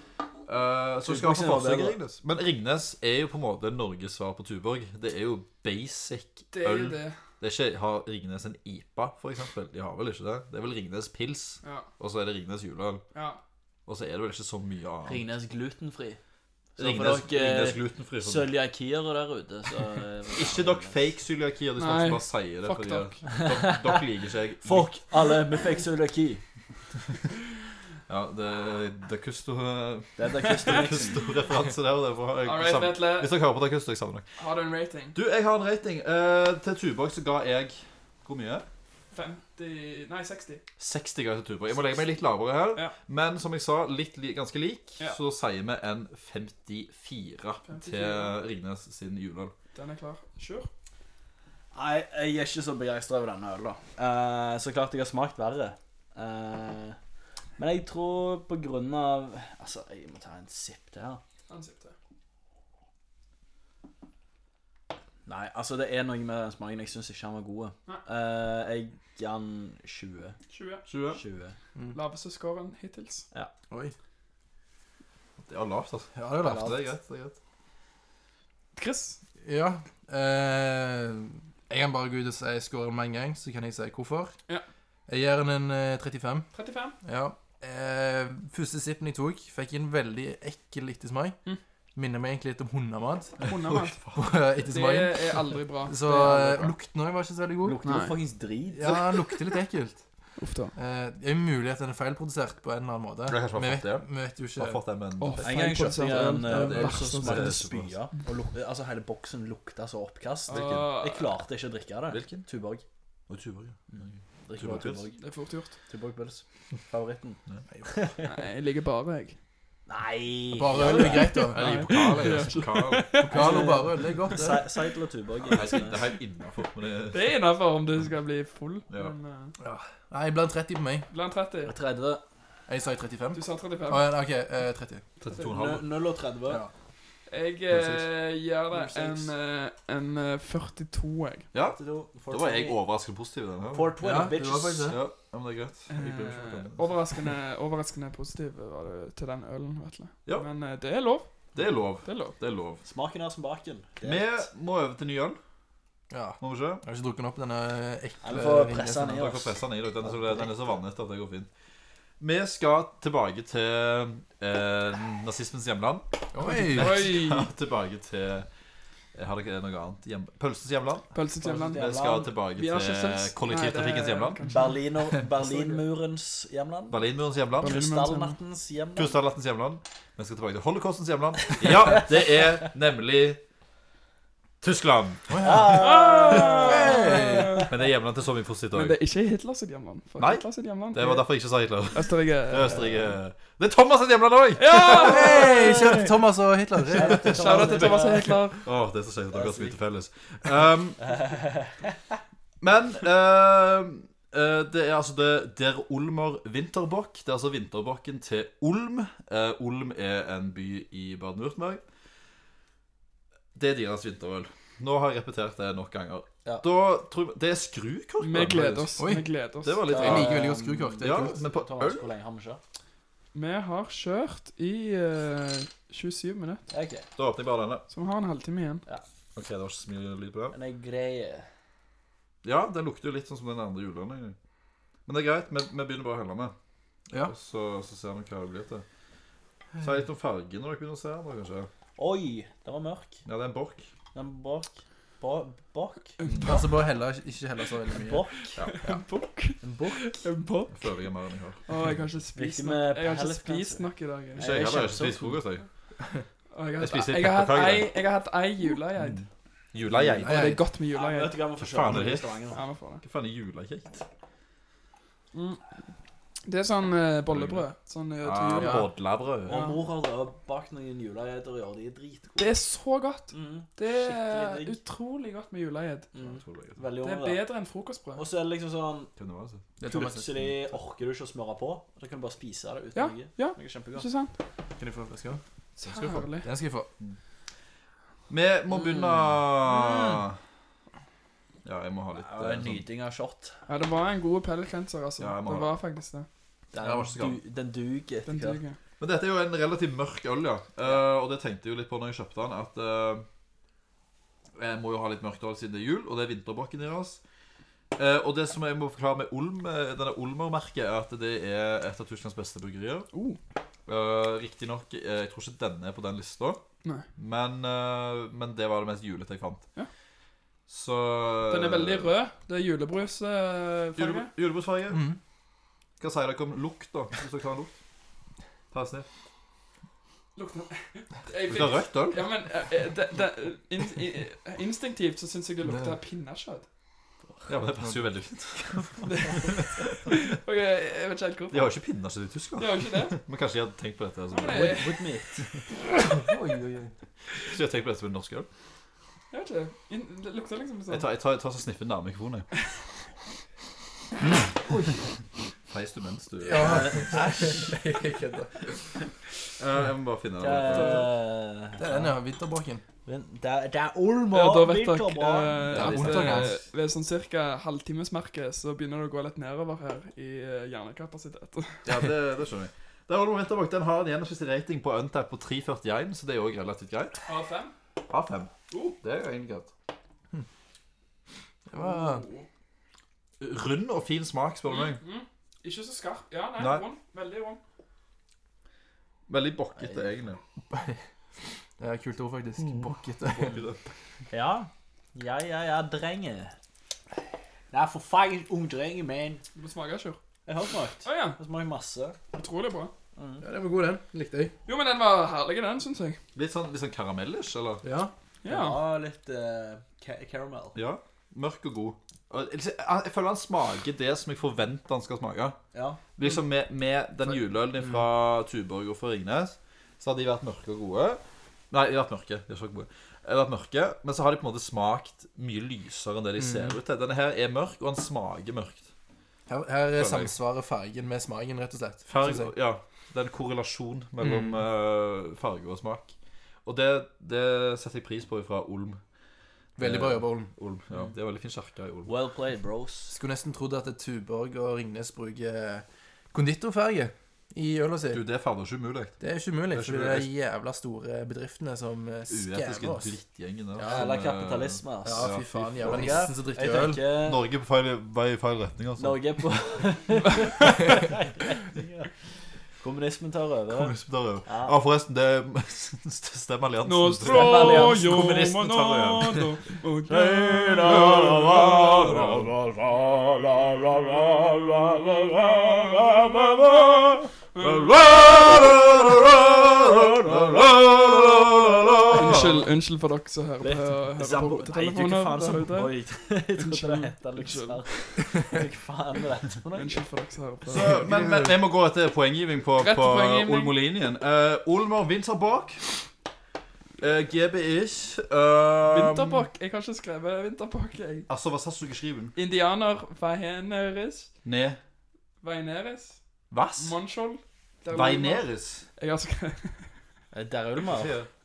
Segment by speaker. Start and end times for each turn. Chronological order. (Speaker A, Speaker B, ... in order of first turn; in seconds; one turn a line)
Speaker A: 0.5-13.0
Speaker B: 1.1-2.0
Speaker C: 6.5-7.2
Speaker C: 11.6-11.9
Speaker C: 13.1-13.4
Speaker A: 13.9-15.3
Speaker B: 15.1-16.2
Speaker B: 16.8-21.0
Speaker A: 16.8-18.5
Speaker A: 20.4-25.0
Speaker C: 21.8-23.3
Speaker B: 23.3-24.0
Speaker B: 24.6-26.4
Speaker A: 28.1-34.3
Speaker B: 30.2-31.2
Speaker C: 32.4-33.3
Speaker C: 34.4-35.2
Speaker A: 35.1-38.7
Speaker C: 39.1-40.6
Speaker A: 40.8-49.5
Speaker C: 47.7-48.4
Speaker C: 49.7-50.7
Speaker B: 51.7-57.0
Speaker B: 57.6-61.2
Speaker C: 61.5-62.0
Speaker B: 65.3-70.4
Speaker C: 70.5-70.8
Speaker A: 70.9-71.2
Speaker B: 71.1-71.6
Speaker C: 71.9-73.3
Speaker A: 75.4-77.4
Speaker D: 76.2-76.7
Speaker B: 76.5-76.7
Speaker C: 78.8-79.2
Speaker D: 79.4-84.4
Speaker D: 85.1-86.5
Speaker C: 86.5-87.0
Speaker D: 87.0-91.4
Speaker D: 92.0-93.4
Speaker A: 93.4-94.2
Speaker C: 93.4-94.0
Speaker D: 94.2-97.8
Speaker C: 94.7-96.7
Speaker B: 97.6-99.1
Speaker C: 97.8-98.2
Speaker D: 98.7-100.0
Speaker C: 100.4-100.7
Speaker D: 100.7-104.8
Speaker A: 103.3-105.8
Speaker C: 105.2-107.6
Speaker B: 105.4-112.8
Speaker D: 106.0-107.1
Speaker A: 106.5-108.0
Speaker C: 110.5-111.3
Speaker A: 110.5-110.9
Speaker A: 112.1-112.5
Speaker A: 113.3-115.1
Speaker B: 113.9-115.2
Speaker C: 115.2-115.8
Speaker B: 115.9-118.3
Speaker C: 118.2-119.4
Speaker B: 119.9-121.4
Speaker D: 120.5-122.2
Speaker C: 120.8-123.8
Speaker A: 121.5-123.2
Speaker D: 123.2-124.7
Speaker B: 123.3-126.1
Speaker A: 125.5-127.3
Speaker C: 127.1-129.5
Speaker D: 129.6-131.1
Speaker C: 131.1-131.8
Speaker B: 131.7-132.2
Speaker D: 132.7-135.0
Speaker C: 133.3-134.1
Speaker A: 135.2-135.9
Speaker B: 135.4-136.6
Speaker C: 137.3-141.5
Speaker A: 137.7-138.1
Speaker B: 138.7-139.3
Speaker A: 141.5-144.0
Speaker B: 141.6-142.8
Speaker B: 143.7-145.0
Speaker D: 144.0-145.0
Speaker A: 144.9-146.9
Speaker C: 145.9-151.5
Speaker A: 151.6-152.8
Speaker C: 152.0-152.4
Speaker B: 152.8-154.5
Speaker A: 154.0-155.4
Speaker D: 156.1-159.2
Speaker A: 156.4-156.8
Speaker B: 158.2-160.6
Speaker A: 159.1-161.5
Speaker A: 162.2-168.5
Speaker D: 166.3-167.1
Speaker C: 166.7-167.5
Speaker A: 169.1-171.1
Speaker C: 171.1-171.8
Speaker B: 171.4-172.3
Speaker A: 171.7-174.4
Speaker C: 172.6-175.8
Speaker B: 174.5-177.0
Speaker A: 176.9-177.8
Speaker C: 177.6-178.4
Speaker B: 177.6-179.2
Speaker A: 179.0-183.4
Speaker A: 184.6-186.7
Speaker D: 185.3-185.8
Speaker B: 185.4-187.7
Speaker C: 185.8-187.7
Speaker D: 186.6-187.6
Speaker A: 187.7-189.0
Speaker C: 188.7-191.3
Speaker A: 190.2-195.5
Speaker C: 191.9-193.0
Speaker C: 194.6-196.1
Speaker D: 194.8-197.4
Speaker B: 195.5-196.1
Speaker B: 196.9-198.4
Speaker C: 197.1-198.6
Speaker A: 197.2-201.1
Speaker B: 199.3-199.8
Speaker B: 201.0-201.9
Speaker A: 202.6-211.8
Speaker A: 213.6-219.0
Speaker C: 218.2-219.8
Speaker D: 219.0-219.3
Speaker A: 219.6-222.1
Speaker D: 219.9-221.4
Speaker B: 219.9-222.6
Speaker C: 223.3-226.7
Speaker B: 226.7-227.1
Speaker A: 227.2-227.8
Speaker C: 227.9-228.8
Speaker A: 229.3-230.6
Speaker B: 230.5-231.5
Speaker A: 232.4-234.4
Speaker A: 235.1-236.6
Speaker A: 237.2-238.8
Speaker A: 239.8-241.7
Speaker B: 242.0-243.2
Speaker A: 243.2-243.9
Speaker B: 244.1-246.2
Speaker C: 246.2-246.7
Speaker A: 246.2-246.7
Speaker D: 246.4-248.3
Speaker B: 247.9-248.6
Speaker A: 248.6-249.0
Speaker C: 248.6-251.1
Speaker B: 249.6-250.3
Speaker A: 250.7-251.9
Speaker C: 251.7-254.5
Speaker B: 252.3-255.4
Speaker A: 254.4-255.7
Speaker C: 256.5-259.2
Speaker A: 256.8-257.9
Speaker A: 258.9-260.6
Speaker B: 259.9-260.2
Speaker D: 260.2-260.6
Speaker C: 260.2-261.4
Speaker B: 260.9-262.6
Speaker A: 261.6-262.4
Speaker C: 262.5-263.0
Speaker A: 263.0-264.1
Speaker C: 265.3-265.6
Speaker C: 266.4-268.9
Speaker A: 267.3-267.7
Speaker A: 268.2-269.6
Speaker D: 268.6-268.9
Speaker B: 269.4-272.6
Speaker C: 269.5-269.8
Speaker C: 272.4-276.1
Speaker B: 273.3-274.8
Speaker B: 276.1-277.5
Speaker A: 276.2-276.8
Speaker C: 277.0-278.2
Speaker B: 278.1-279.1
Speaker A: 279.2-279.6
Speaker D: 279.8-280.5
Speaker B: 279.9-284.1
Speaker C: 282.9-284.3
Speaker D: 284.8-285.4
Speaker C: 285.8-286.5
Speaker A: 285.8-286.2
Speaker D: 286.3-286.9
Speaker A: 288.3-290.4
Speaker B: 288.7-290.2
Speaker A: 291.6-292.8
Speaker B: 292.1-293.6
Speaker C: 293.7-296.3
Speaker A: 295.2-295.7
Speaker B: 296.7-298.6
Speaker A: 296.9-297.4
Speaker C: 298.3-298.8
Speaker A: 299.0-303.3
Speaker A: 304.6-307.2
Speaker A: 307.9-313.1
Speaker C: 313.1-313.4
Speaker A: 313.9-316.6
Speaker A: 317.2-319.7
Speaker A: 320.7-322.1
Speaker C: 321.5-324.3
Speaker A: 324.0-325.1
Speaker D: 324.9-325.2
Speaker A: 326.0-327.8
Speaker A: 328.7-329.1
Speaker C: 330.4-336.7
Speaker A: 331.4-332.2
Speaker A: 337.5-340.2
Speaker C: 339.0-341.7
Speaker A: 341.5-344.9
Speaker C: 342.6-343.2
Speaker C: 344.3-345.1
Speaker B: 344.5-345.4
Speaker D: 346.0-346.9
Speaker A: 347.4-348.5
Speaker C: 349.3-351.1
Speaker A: 350.9-352.5
Speaker D: 354.6-355.0
Speaker A: 355.7-357.2
Speaker D: 356.4-358.7
Speaker B: 356.6-357.7
Speaker A: 359.6-361.1
Speaker B: 360.4-362.1
Speaker D: 361.8-362.8
Speaker B: 363.1-365.7
Speaker C: 364.3-371.9
Speaker A: 365.7-366.6
Speaker D: 365.7-366.6
Speaker A: 371.9-377.2
Speaker C: 377.3-377.7
Speaker A: 378.1-379.7
Speaker C: 378.7-379.0
Speaker D: 381.7-382.2
Speaker C: 381.8-382.5
Speaker A: 383.4-385.0
Speaker C: 384.7-387.6
Speaker A: 386.6-386.9
Speaker A: 389.3-390.4
Speaker B: 389.8-390.1
Speaker D: 390.7-391.0
Speaker D: 391.8-393.6
Speaker A: 392.6-393.8
Speaker B: 394.3-396.5
Speaker B: 397.7-399.4
Speaker C: 399.6-400.2
Speaker B: 400.5-402.2
Speaker C: 401.1-401.4
Speaker C: 402.3-402.9
Speaker B: 403.2-403.4
Speaker D: 403.4-404.5
Speaker C: 404.7-406.2
Speaker A: 406.4-407.8
Speaker D: 407.8-408.1
Speaker C: 408.4-408.8
Speaker B: 408.4-410.8
Speaker A: 410.8-415.6
Speaker B: 415.7-416.0
Speaker A: 416.2-428.9
Speaker D: 426.4-426.8
Speaker D: 429.5-432.5
Speaker A: 429.9-430.3
Speaker A: 432.1-436.1
Speaker D: 434.2-434.6
Speaker A: 436.6-439.0
Speaker A: 439.8-442.1
Speaker D: 439.8-440.5
Speaker B: 442.1-443.2
Speaker D: 443.1-448.2
Speaker A: 448.1-449.2
Speaker D: 449.2-453.2
Speaker A: 449.7-450.3
Speaker A: 452.3-456.2
Speaker D: 453.8-454.1
Speaker B: 453.8-457.4
Speaker D: 455.1-457.0
Speaker A: 457.2-459.2
Speaker B: 459.0-462.1
Speaker B: 462.7-464.7
Speaker A: 463.7-469.4
Speaker C: 466.8-471.1
Speaker B: 467.2-468.1
Speaker B: 470.1-477.3
Speaker A: 470.9-472.6
Speaker C: 477.6-477.9
Speaker A: 477.6-482.7
Speaker B: 479.8-481.4
Speaker C: 482.1-485.9
Speaker B: 483.6-490.0
Speaker C: 486.6-487.8
Speaker C: 489.8-491.0
Speaker A: 490.7-495.9
Speaker D: 490.7-491.6
Speaker C: 492.8-493.8
Speaker A: 497.0-499.5
Speaker C: 498.9-501.3
Speaker A: 501.3-502.3
Speaker C: 502.4-504.3
Speaker A: 504.4-504.8
Speaker C: 505.4-506.2
Speaker A: 506.5-507.0
Speaker C: 506.8-509.9
Speaker A: 507.9-508.9
Speaker B: 510.3-511.1
Speaker A: 510.9-511.3